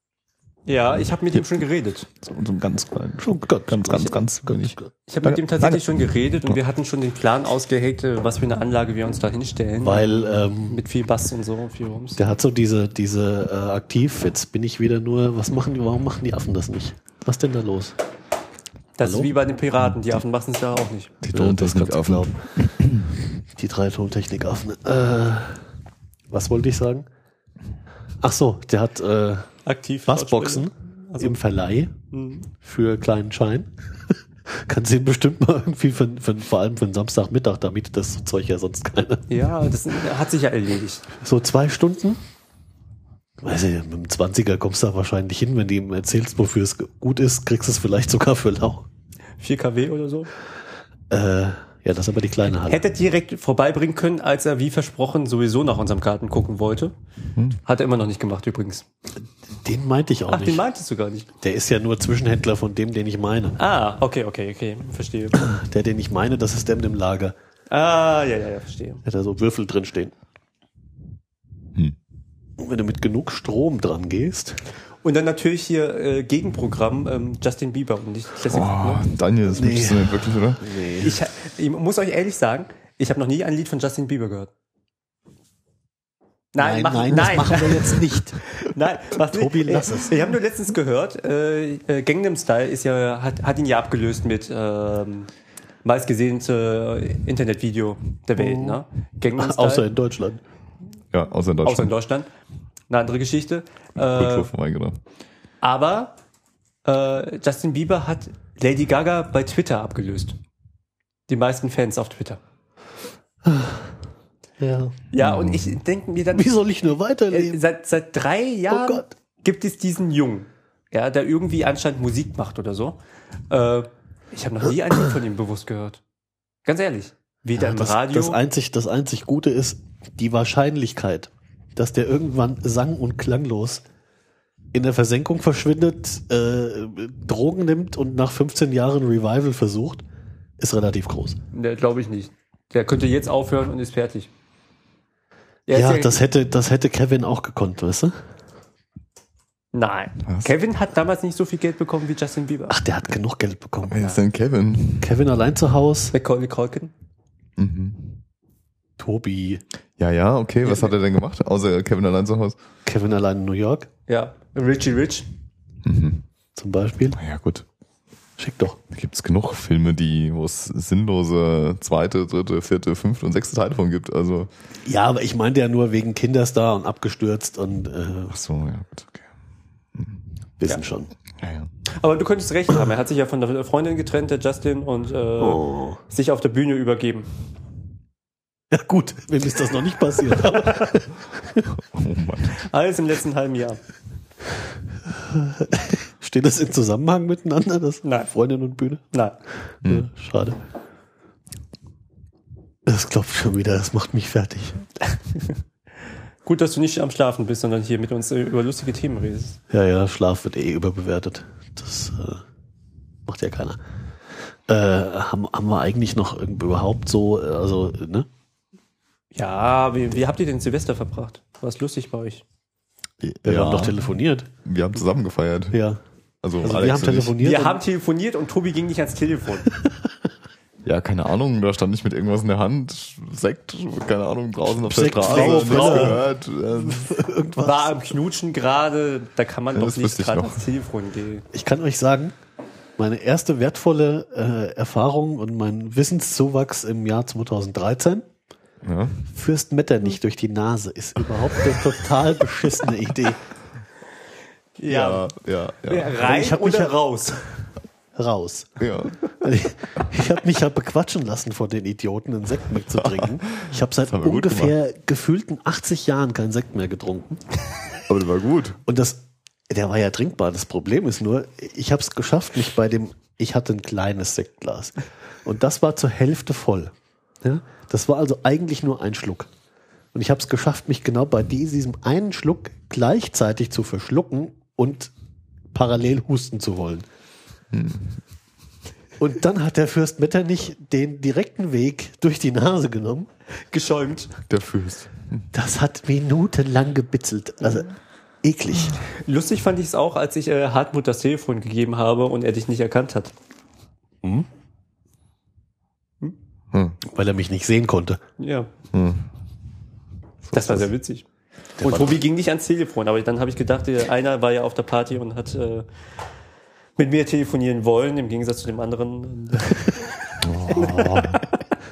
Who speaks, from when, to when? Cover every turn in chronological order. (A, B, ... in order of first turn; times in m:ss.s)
0:00.7-0:02.1 A
0:02.2-0:06.6 B
0:03.2-0:04.9 C
0:05.1-0:12.2 A
0:09.8-0:10.8 C
0:12.2-0:18.0 C
0:19.0-0:21.1 A
0:19.0-0:19.3 C
0:21.2-0:23.1 B
0:21.3-0:22.7 C
0:23.6-0:25.6 C
0:26.3-0:27.1 C
0:28.2-0:29.5 C
0:29.7-0:31.4 A
0:30.1-0:31.9 C
0:32.1-0:32.5 A
0:32.6-0:39.5 C
0:39.3-0:41.1 A
0:41.2-0:42.2 C
0:43.4-0:48.9 C
0:49.4-0:50.3 A
0:51.1-0:52.8 C
0:52.6-0:56.9 A
0:57.6-0:58.9 A
0:59.6-1:00.6 C
1:00.3-1:01.3 A
1:01.4-1:03.6 C
1:03.6-1:05.4 A
1:05.4-1:07.4 C
1:07.7-1:09.0 A
1:09.0-1:10.1 C
1:12.6-1:14.6 C
1:15.0-1:19.1 A
1:18.5-1:20.6 B
1:19.5-1:21.2 C
1:21.0-1:24.5 A
1:26.5-1:35.3 A
1:26.6-1:28.4 C
1:29.2-1:30.4 C
1:35.8-1:39.9 A
1:38.4-1:38.8 C
1:39.4-1:40.4 C
1:41.1-1:41.9 B
1:41.6-1:42.3 A
1:42.9-1:44.5 A
1:44.0-1:45.0 B
1:45.6-1:46.2 A
1:46.8-1:50.4 A
1:51.3-1:52.4 A
1:53.4-1:53.9 C
1:54.6-1:55.0 C
1:55.1-1:56.5 A
1:55.2-1:55.8 B
1:56.3-1:57.6 C
1:57.3-2:03.0 A
1:58.7-1:59.1 C
2:03.5-2:06.0 A
2:06.7-2:08.4 A
2:07.6-2:13.8 C
2:14.7-2:20.0 C
2:20.6-2:21.4 C
2:21.5-2:24.3 A
2:25.7-2:26.2 A
2:25.7-2:28.2 C
2:29.7-2:32.8 A
2:30.3-2:30.5 B
2:32.7-2:34.0 C
2:33.8-2:35.1 B
2:35.0-2:36.1 C
2:36.1-2:36.9 A
2:37.6-2:38.2 B
2:39.0-2:39.6 C
2:40.0-2:42.6 B
2:40.6-2:40.9 A
2:42.9-2:43.9 C
2:44.1-2:45.3 A
2:45.8-2:46.2 B
2:46.6-2:47.2 C
2:47.1-2:47.7 B
2:48.4-2:48.8 C
2:48.9-2:54.5 B
2:54.8-2:58.4 C
2:58.3-2:59.3 B
3:00.0-3:00.2 B
3:00.6-3:01.1 C
3:01.4-3:01.7 B
3:02.0-3:07.3 A
3:05.4-3:06.0 C
3:08.7-3:11.7 C
3:10.5-3:10.9 A
3:11.8-3:12.6 B
3:12.6-3:13.8 A
3:15.3-3:19.0 C
3:18.0-3:18.3 A
3:19.8-3:20.6 C
3:22.9-3:24.8 C
3:26.4-3:29.6 A
3:29.7-3:32.4 C
3:33.3-3:33.8 C
3:34.7-3:38.3 C
3:39.3-3:42.4 A
3:43.2-3:44.1 B
3:43.4-3:44.5 C
3:44.6-3:45.8 B
3:45.7-3:46.0 C
3:46.4-3:47.4 B
3:46.6-3:47.8 C
3:47.4-3:49.7 A
3:50.8-3:57.1 B
3:54.8-3:58.0 C
3:55.2-3:56.2 A
3:57.6-4:01.4 A
3:59.7-4:00.7 B
4:01.5-4:02.4 C
4:03.0-4:08.2 C
4:08.8-4:09.2 B
4:09.3-4:13.4 C
4:14.8-4:15.2 A
4:14.9-4:16.2 B
4:15.9-4:17.4 A
4:16.2-4:17.4 C
4:18.2-4:18.8 C
4:18.8-4:19.2 B
4:19.4-4:27.4 C
4:22.9-4:24.8 B
4:28.1-4:28.8 B
4:28.9-4:36.9 C
4:37.4-4:39.5 C
4:40.1-4:45.1 C
4:45.7-4:47.1 C
4:47.7-4:48.2 B
4:49.2-4:53.3 C
4:53.7-4:54.3 A
4:54.5-4:55.5 B
4:55.5-4:57.9 C
4:58.4-4:59.0 C
4:59.1-5:03.3 A
5:06.7-5:07.0 B
5:07.1-5:08.2 C
5:08.4-5:08.7 A
5:08.9-5:09.3 B
5:10.4-5:10.9 B
5:10.5-5:11.2 A
5:11.8-5:12.2 C
5:11.8-5:15.9 A
5:17.0-5:21.6 A
5:20.4-5:21.4 B